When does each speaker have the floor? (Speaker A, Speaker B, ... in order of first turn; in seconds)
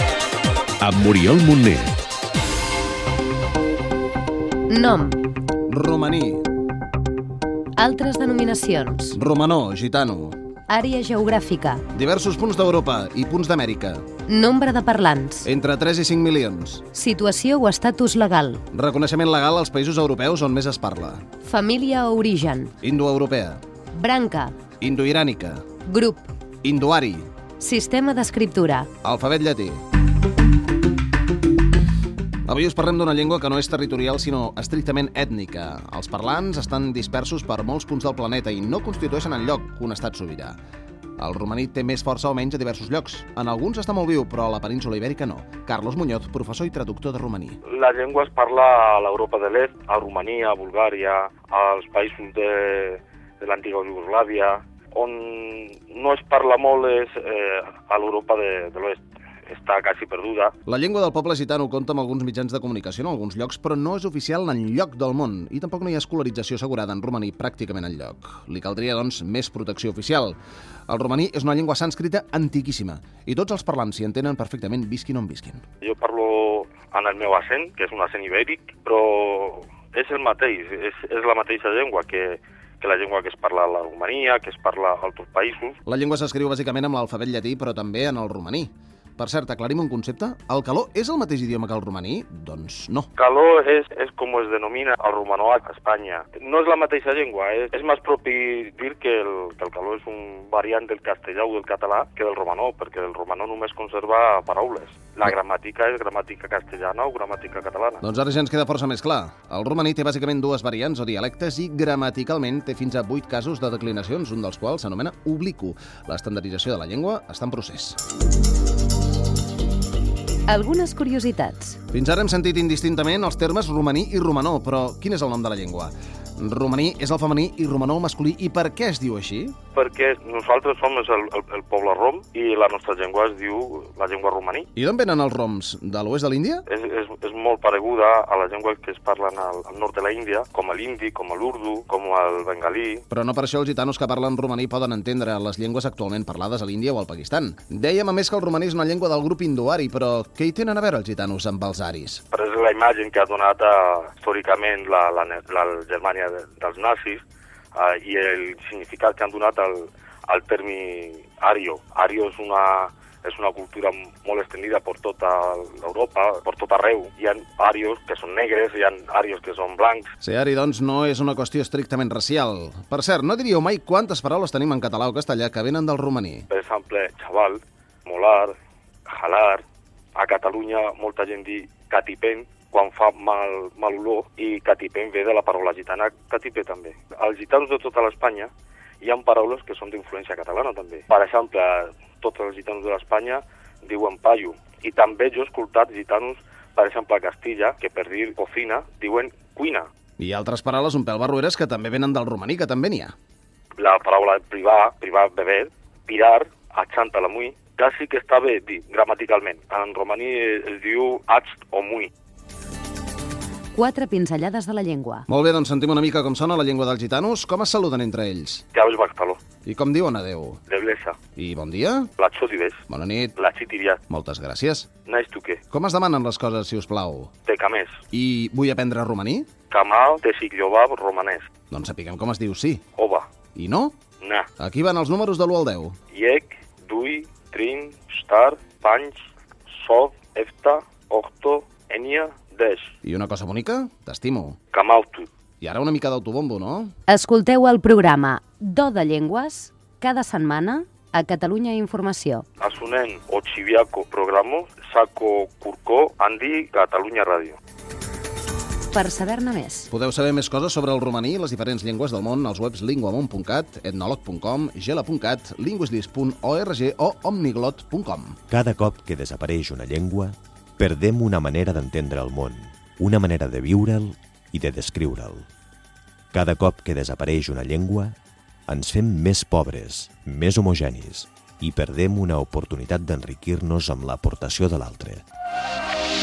Speaker A: 0.8-2.0, 268.5-275.4, 276.3-278.1, 278.7-285.2
Speaker B: 4.7-5.2, 7.8-9.2, 10.7-11.8, 14.2-15.4, 16.9-18.6, 21.4-22.7, 23.9-24.6, 25.8-26.3, 27.6-28.9, 120.5-121.8, 213.7-215.2, 247.1-252.4, 258.9-259.9
Speaker C: 5.7-6.5, 9.1-10.4, 11.9-14.1, 15.4-16.8, 18.7-21.2, 22.8-23.6, 24.8-25.6, 26.6-27.3, 29.0-29.8, 32.5-40.6, 41.2-47.6, 60.6-75.6, 85.8-93.1, 108.0-118.0, 121.9-129.6, 134.8-136.6, 143.1-152.2, 170.2-176.5, 200.2-203.1, 215.3-218.6, 219.6-220.6, 221.3-222.1, 222.9-223.3, 224.1-224.9, 225.7-227.3, 228.1-229.5, 231.7-232.8, 233.5-234.0, 234.6-236.0, 243.0-244.6, 245.6-246.9, 259.9-268.4
Speaker D: 47.7-60.5, 75.8-85.8, 93.2-108.0, 129.7-134.7, 136.7-143.0, 152.3-157.2, 157.7-170.1, 176.5-178.6, 179.1-179.6, 180.1-199.9, 203.8-212.1, 218.7-219.4, 220.7-221.2, 222.2-222.8, 223.3-224.0, 225.1-225.6, 227.4-228.0, 229.7-231.5, 232.9-233.3, 234.2-234.5, 236.1-242.9, 244.7-245.3, 252.6-257.6